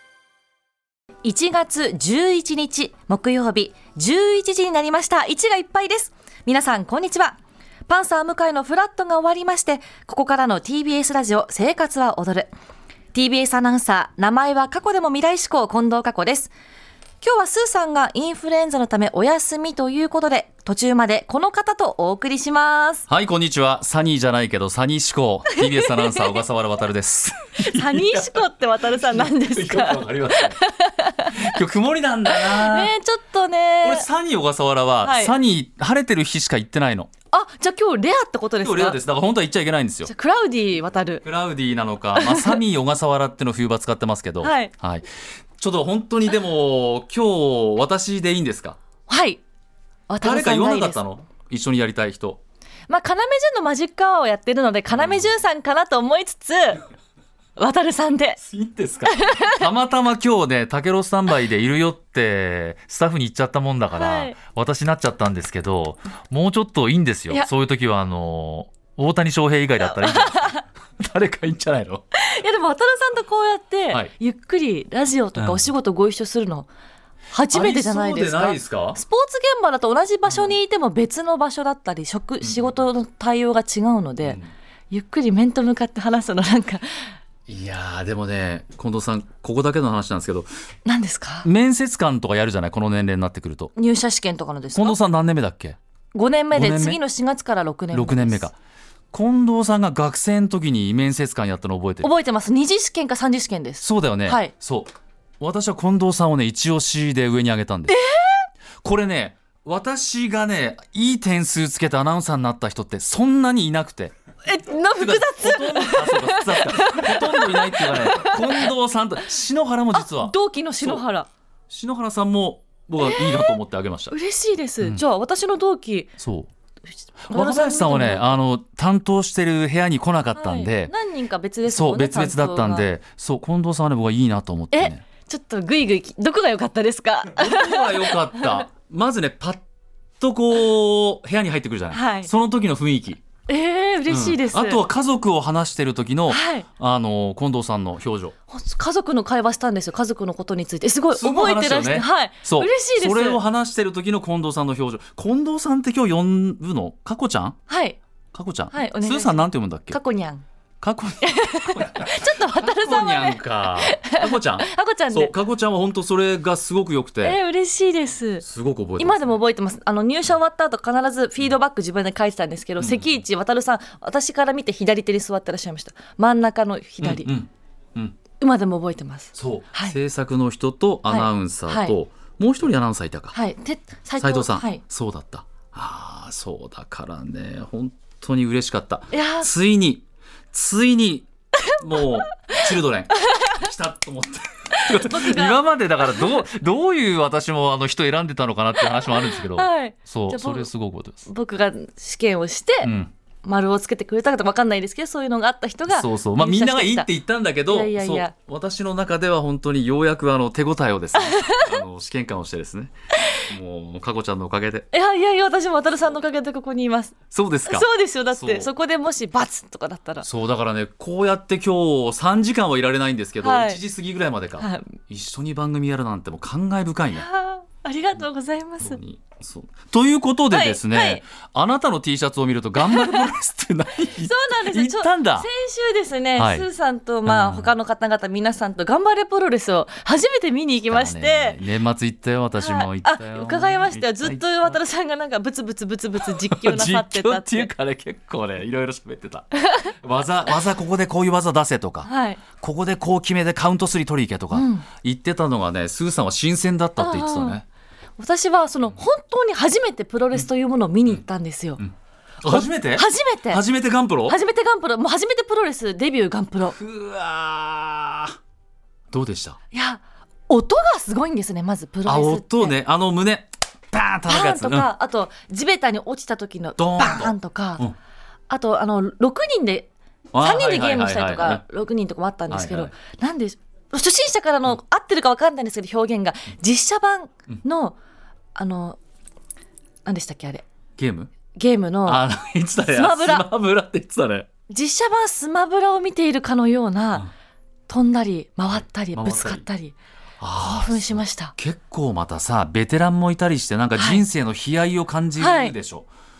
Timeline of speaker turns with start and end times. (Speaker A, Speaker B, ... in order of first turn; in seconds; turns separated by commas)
Speaker A: 1.2-12.5, Speaker A: 13.1-16.5, Speaker A: 17.2-23.1, Speaker B: 23.1-30.6, Speaker A: 25.6-26.2, Speaker A: 27.6-31.5, Speaker B: 31.3-32.9, Speaker A: 32.2-34.1, Speaker B: 33.8-37.1, Speaker A: 35.0-35.3, Speaker A: 37.3-39.0, Speaker B: 38.6-40.1, Speaker A: 40.1-41.2, Speaker B: 41.2-45.0, Speaker A: 42.1-42.6, Speaker A: 44.4-44.7, Speaker B: 45.6-48.8, Speaker A: 49.1-49.4, Speaker A: 50.1-51.0, Speaker B: 50.2-52.4, Speaker A: 52.9-56.8, Speaker B: 54.9-55.3, Speaker A: 57.6-58.4, Speaker B: 58.4-72.0, Speaker A: 59.0-59.7, Speaker A: 63.9-64.3, Speaker A: 69.8-70.6, Speaker A: 72.2-76.7, Speaker B: 75.3-75.6, Speaker A: 77.3-84.4, Speaker B: 77.5-79.0, Speaker B: 80.3-80.5, Speaker B: 84.2-84.5, Speaker A: 84.9-87.1, Speaker B: 87.5-90.5, Speaker A: 90.8-91.5, Speaker B: 91.4-93.7, Speaker A: 93.8-95.0, Speaker B: 94.8-95.8, Speaker A: 96.1-98.5, Speaker B: 96.5-97.0, Speaker B: 97.9-98.5, Speaker B: 99.1-102.1, Speaker A: 102.0-104.5, Speaker B: 103.8-108.0, Speaker A: 107.9-108.5, Speaker B: 108.8-114.1, Speaker A: 114.4-118.7, Speaker B: 115.0-121.0, Speaker A: 119.9-121.3, Speaker B: 121.7-124.2, Speaker A: 123.0-123.6, Speaker A: 124.1-126.1, Speaker B: 126.2-126.5, Speaker A: 127.3-128.4, Speaker B: 127.3-130.9, Speaker A: 130.4-132.9, Speaker B: 131.7-135.0, Speaker A: 134.7-138.7, Speaker B: 137.3-139.6, Speaker B: 140.2-143.2, Speaker A: 141.9-142.3, Speaker A: 143.5-144.8, Speaker B: 144.1-148.3, Speaker A: 146.3-146.7, Speaker A: 148.5-153.4, Speaker B: 151.1-157.6, Speaker A: 157.7-158.0, Speaker B: 158.3-160.0, Speaker A: 158.7-160.4, Speaker B: 160.8-167.4, Speaker A: 161.2-165.3, Speaker A: 167.2-168.4, Speaker B: 168.4-169.4, Speaker A: 169.0-177.3, Speaker B: 172.8-173.1, Speaker B: 177.0-178.2, Speaker A: 178.4-180.0, Speaker B: 179.3-183.4, Speaker A: 181.1-182.0, Speaker A: 183.3-184.8, Speaker B: 184.2-201.3, Speaker A: 189.1-189.5, Speaker A: 191.7-192.6, Speaker A: 193.2-193.5, Speaker A: 194.8-195.6, Speaker A: 198.9-200.7, Speaker A: 201.2-202.9, Speaker B: 202.8-203.1, Speaker A: 203.4-207.1, Speaker B: 205.9-214.9, Speaker A: 207.7-208.3, Speaker A: 211.2-211.8, Speaker A: 214.9-217.2, Speaker B: 217.3-218.7, Speaker A: 217.7-220.3, Speaker B: 220.2-227.3, Speaker A: 223.4-223.8, Speaker A: 224.6-225.0, Speaker A: 227.1-229.0, Speaker B: 228.8-235.5, Speaker A: 230.5-231.2, Speaker A: 232.8-233.3, Speaker A: 234.2-241.6, Speaker B: 236.4-236.7, Speaker B: 237.2-237.7, Speaker B: 240.9-244.8, Speaker A: 242.6-247.7, Speaker B: 246.2-257.6, Speaker A: 249.6-249.9, Speaker A: 252.1-252.4, Speaker A: 254.5-254.9, Speaker A: 257.0-257.6, Speaker A: 258.2-261.8, Speaker B: 261.8-264.4, Speaker A: 262.4-263.6, Speaker A: 264.3-266.8, Speaker B: 266.8-268.4, Speaker B: 269.1-269.6, Speaker A: 269.7-272.8, Speaker B: 272.1-274.9, Speaker A: 274.3-277.9, Speaker B: 276.8-277.9, Speaker A: 278.5-288.0, Speaker B: 280.3-281.6, Speaker B: 282.5-282.9, Speaker A: 288.6-289.0, Speaker A: 290.1-290.6, Speaker B: 291.0-291.3, Speaker A: 291.5-292.2, Speaker B: 292.1-294.5, Speaker A: 292.9-293.5, Speaker A: 294.7-297.3, Speaker A: 297.9-299.9, Speaker B: 299.1-299.6, Speaker B: 300.4-306.1, Speaker A: 300.6-301.5, Speaker A: 303.9-304.2, Speaker A: 305.4-305.8